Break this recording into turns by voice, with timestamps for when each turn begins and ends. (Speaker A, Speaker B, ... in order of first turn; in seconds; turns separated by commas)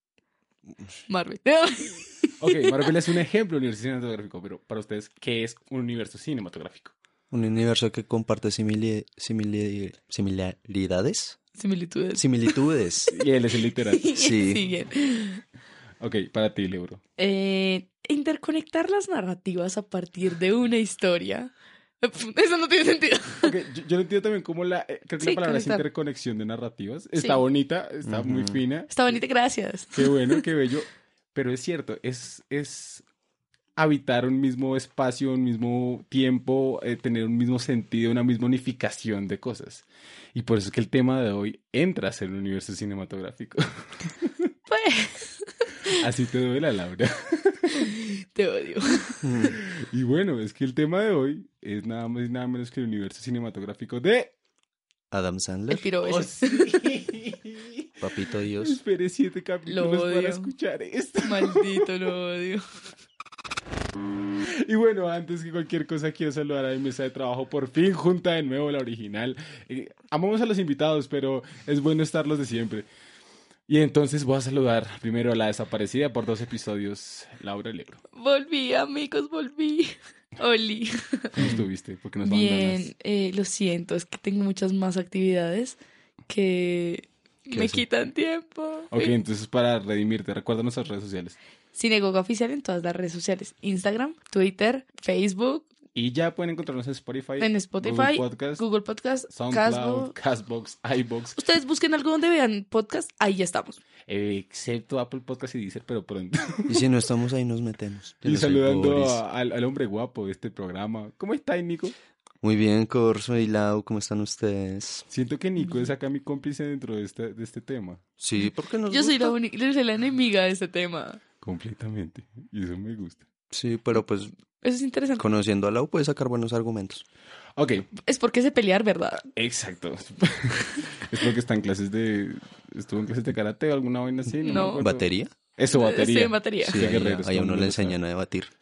Speaker A: 1.1-2.9, Speaker B: 2.4-6.9, Speaker C: 7.3-11.4, Speaker A: 11.6-12.6, Speaker C: 12.2-13.2, Speaker B: 13.1-14.1, Speaker A: 13.7-15.4, Speaker C: 14.1-14.7, Speaker B: 16.0-17.0, Speaker A: 17.2-23.6, Speaker B: 23.4-28.9, Speaker A: 25.2-25.8, Speaker A: 27.2-27.4, Speaker C: 28.0-28.6, Speaker A: 28.9-30.4, Speaker B: 29.9-33.0, Speaker B: 33.8-39.8, Speaker B: 40.3-44.3, Speaker A: 44.7-46.0, Speaker B: 45.9-47.6, Speaker A: 47.7-49.6, Speaker C: 49.2-49.5, Speaker B: 49.5-54.3, Speaker C: 55.1-55.9, Speaker A: 55.7-56.8, Speaker B: 56.0-58.0, Speaker C: 58.0-58.8, Speaker B: 58.6-61.9, Speaker A: 59.7-60.5, Speaker A: 61.2-62.6, Speaker B: 64.6-72.9, Speaker B: 73.7-78.0, Speaker A: 78.1-81.5, Speaker B: 81.3-82.9, Speaker A: 82.2-85.8, Speaker A: 86.3-89.1, Speaker C: 87.5-87.8, Speaker B: 88.9-91.3, Speaker A: 91.7-95.7, Speaker B: 95.9-98.6, Speaker A: 97.4-100.1, Speaker B: 99.3-101.4, Speaker A: 101.4-103.8, Speaker B: 104.1-106.9, Speaker C: 106.7-109.2, Speaker B: 108.2-111.9, Speaker C: 112.4-115.1, Speaker B: 115.1-118.0, Speaker C: 118.2-119.3, Speaker A: 118.9-121.2, Speaker B: 121.4-123.2, Speaker C: 123.5-124.3, Speaker A: 124.6-125.2, Speaker C: 125.2-127.0, Speaker B: 127.6-127.9, Speaker A: 128.1-129.2, Speaker B: 129.2-135.0, Speaker A: 134.4-134.9, Speaker C: 134.5-135.3, Speaker B: 135.6-138.0, Speaker A: 135.7-136.8, Speaker C: 136.6-138.5